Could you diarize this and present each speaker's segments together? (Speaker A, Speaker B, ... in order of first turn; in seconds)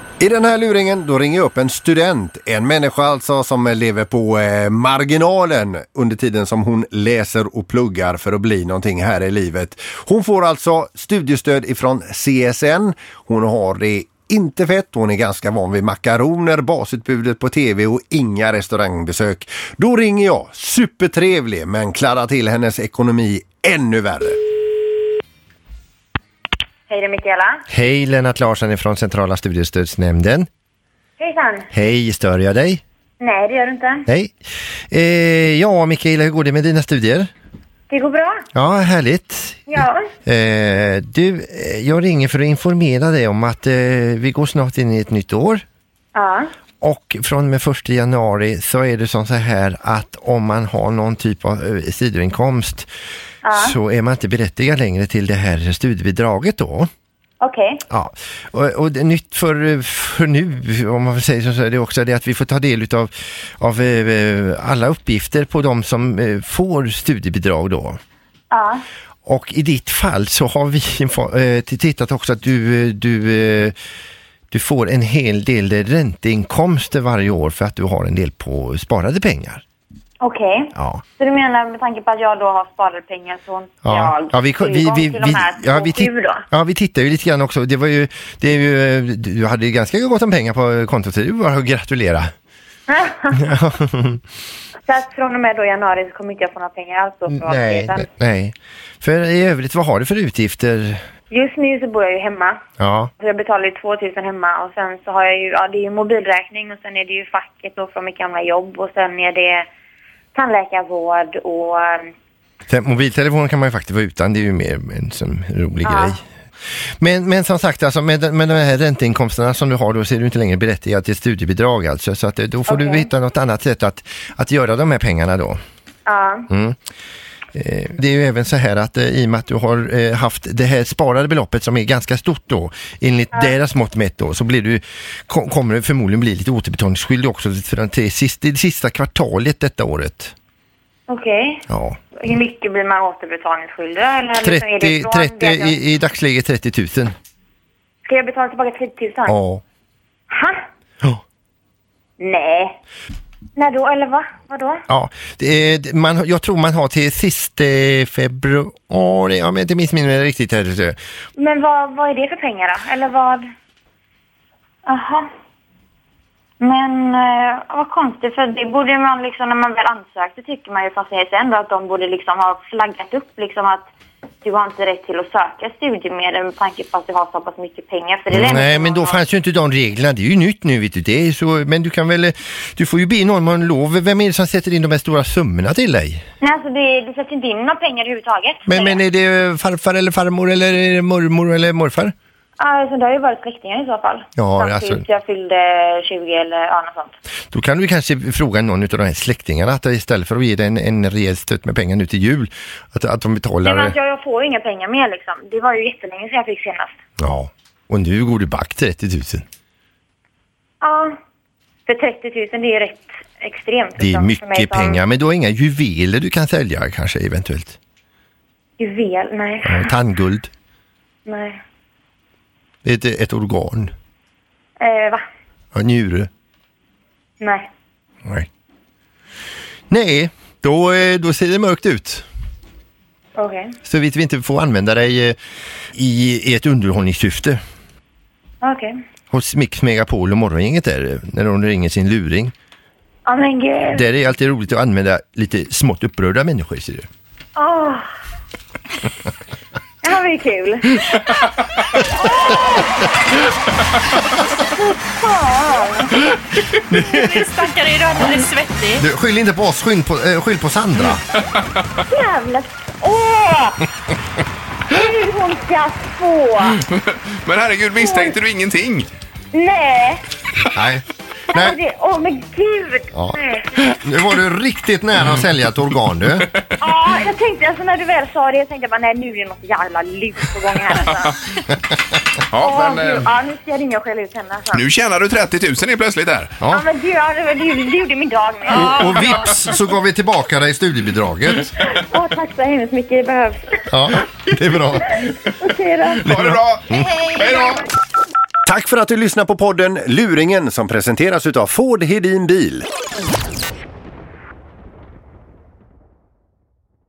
Speaker A: 0.2-24.4, 298.7-302.9
Speaker B: 26.9-27.6, 31.2-31.7, 33.2-34.1, 37.9-38.4, 39.7-40.1, 46.1-46.5, 53.4-53.8, 57.4-57.8, 68.5-68.8, 80.2-86.5, 92.9-93.5, 94.9-98.1, 101.3-102.6, 103.2-109.7, 110.3-112.1, 115.8-116.2, 122.7-123.1, 126.1-126.5, 141.1-141.6, 142.2-145.8, 148.1-149.4, 150.3-150.6, 152.2-152.8, 153.6-154.8, 161.4-163.5, 164.9-165.3, 166.6-173.9, 174.4-179.2, 186.4-189.0, 192.6-197.2, 203.6-207.0, 210.8-211.2, 211.9-215.0, 218.8-219.9, 221.3-221.6, 224.8-225.2, 227.4-227.7, 233.4-233.8, 238.6-238.9, 243.3-244.1, 247.6-248.1, 250.0-251.2, 252.1-252.9, 254.6-256.3, 262.1-263.9, 264.9-266.8, 268.0-268.4, 269.5-270.2, 271.5-273.8, 276.8-281.4, 282.6-284.8, 286.7-289.3, 291.8-293.8, 295.2-296.4
Speaker C: 27.7-30.5, 31.7-32.8, 34.1-34.3, 34.9-37.3, 38.5-45.6, 46.8-52.9, 53.5-56.9, 57.9-68.0, 69.3-73.8, 74.5-79.6, 80.8-81.0, 83.8-92.3, 93.4-94.2, 97.3-101.0, 102.8-103.1, 112.7-116.3, 117.0-125.6, 126.5-126.8, 127.5-140.3, 141.7-142.0, 144.4-147.2, 149.3-149.6, 154.9-161.0, 178.3-186.2, 188.7-192.1, 194.4-195.0, 197.5-204.0, 207.2-209.4, 214.0-217.8, 219.6-220.5, 222.8-223.9, 225.8-226.3, 229.9-232.3, 233.8-235.4, 235.9-237.6, 239.3-242.5, 243.9-247.1, 256.9-257.5, 259.0-261.2, 270.6-271.8, 273.1-276.5, 288.7-291.7, 293.9-295.2, 296.3-297.2
Speaker D: 256.9-259.0
Speaker E: 266.9-269.1, 282.5-283.3, 284.7-286.6, 296.2-297.9